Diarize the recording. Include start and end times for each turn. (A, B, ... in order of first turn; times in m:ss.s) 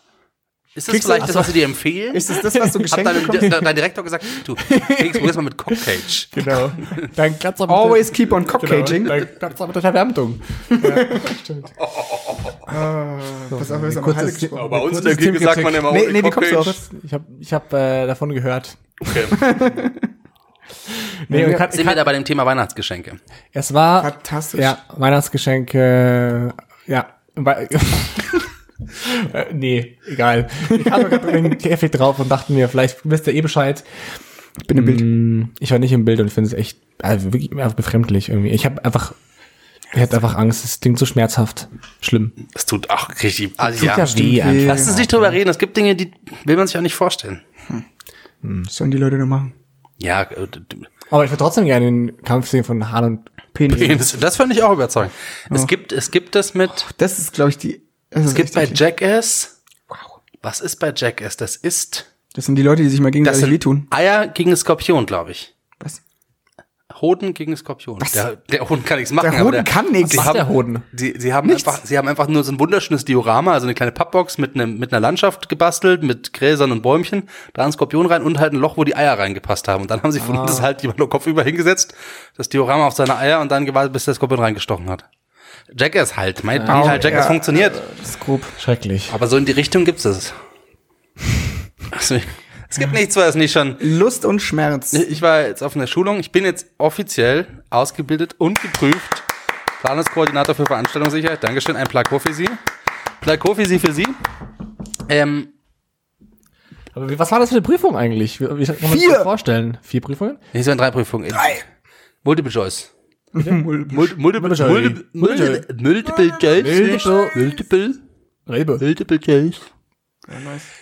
0:00.7-0:02.3 A
0:01.0-0:01.6 B
0:01.0-0:01.3 C
0:02.1-0:03.6 C
0:02.5-0:03.6 B
0:02.9-0:07.0 A
0:04.6-0:11.7 B
0:07.7-0:09.3 C
0:10.7-0:11.3 C
0:11.8-0:12.7 A
0:12.7-0:14.8 C
0:13.5-0:15.9 B
0:14.5-0:16.8 A
0:15.8-0:16.8 C
0:16.6-0:19.3 B
0:19.0-0:19.5 A
0:19.4-0:20.1 C
0:20.8-0:22.0 B
0:21.3-0:21.7 C
0:21.7-0:23.2 A
0:23.5-0:33.8 B
0:24.0-0:24.8 C
0:30.7-0:31.5 C
0:34.6-0:35.1 C
0:34.7-0:39.2 B
0:39.9-0:42.3 B
0:42.5-0:44.1 A
0:43.6-0:45.4 B
0:43.9-0:44.9 C
0:44.6-0:47.4 A
0:48.4-0:48.7 B
0:48.7-0:49.5 C
0:50.0-0:50.9 A
0:51.1-0:53.9 B
0:53.5-0:54.1 C
0:53.7-0:56.9 A
0:56.8-0:58.8 C
0:58.3-0:59.5 A
0:59.9-1:00.1 C
1:00.4-1:02.1 A
1:02.3-1:03.9 C
1:03.2-1:05.5 A
1:06.9-1:25.0 A
1:09.2-1:10.4 C
1:10.0-1:10.8 B
1:11.4-1:11.8 C
1:20.2-1:20.7 B
1:25.7-1:27.8 A
1:26.5-1:27.2 B
1:26.7-1:28.6 C
1:28.6-1:29.1 B
1:29.1-1:30.4 A
1:31.9-1:33.8 A
1:33.8-1:35.0 C
1:34.9-1:39.3 A
1:39.8-1:42.6 A
1:43.2-1:44.2 A
1:45.1-1:45.5 A
1:46.9-1:50.4 B
1:48.9-1:49.3 C
1:50.5-1:51.6 A
1:52.2-1:52.9 A
1:53.3-1:54.1 C
1:53.9-1:58.0 A
1:54.4-1:55.6 B
1:56.6-1:57.4 B
1:58.5-1:58.8 B
1:58.8-1:59.6 A
2:00.3-2:00.7 C